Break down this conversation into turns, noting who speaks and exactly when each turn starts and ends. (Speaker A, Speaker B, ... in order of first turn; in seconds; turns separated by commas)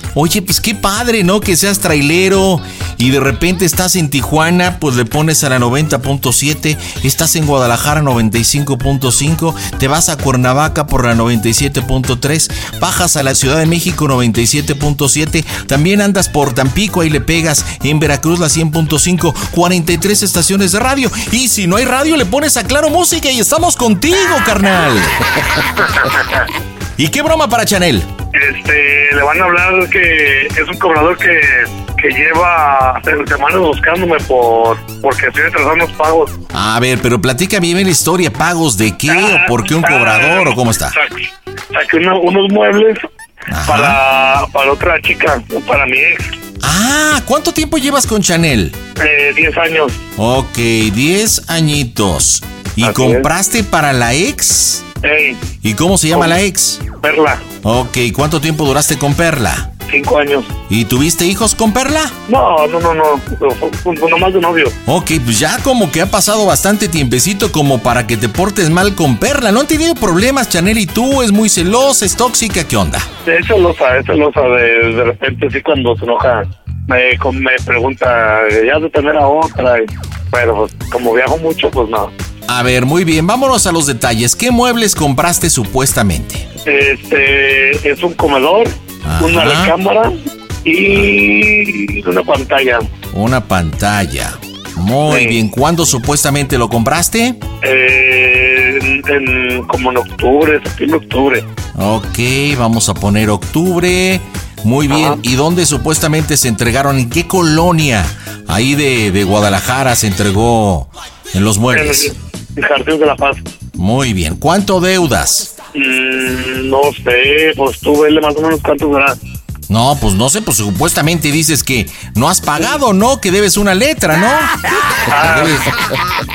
Speaker A: 0.1-25.1, Speaker A: 27.0-28.1, Speaker B: 28.3-36.4, Speaker A: 36.5-41.0, Speaker B: 39.1-43.1, Speaker A: 43.5-44.0, Speaker B: 43.6-46.3, Speaker A: 46.6-48.8, Speaker B: 49.0-50.0, Speaker A: 50.2-54.9, Speaker B: 52.8-53.3, Speaker B: 55.0-55.5, Speaker A: 55.6-56.8, Speaker B: 56.1-56.4, Speaker B: 57.0-57.5, Speaker A: 57.6-59.7, Speaker B: 59.9-60.5, Speaker A: 60.7-62.1, Speaker B: 62.3-64.8, Speaker A: 64.9-73.1, Speaker B: 73.2-82.1, Speaker A: 82.5-86.5, Speaker B: 86.7-90.1, Speaker A: 89.0-89.7, Speaker B: 90.7-92.9, Speaker A: 93.1-97.4, Speaker B: 95.1-95.4, Speaker B: 97.6-101.5, Speaker A: 101.8-112.1, Speaker B: 104.9-105.2, Speaker B: 111.7-113.4, Speaker A: 113.8-115.5, Speaker B: 115.7-119.2, Speaker A: 119.7-124.5, Speaker B: 125.1-125.6, Speaker A: 125.3-125.6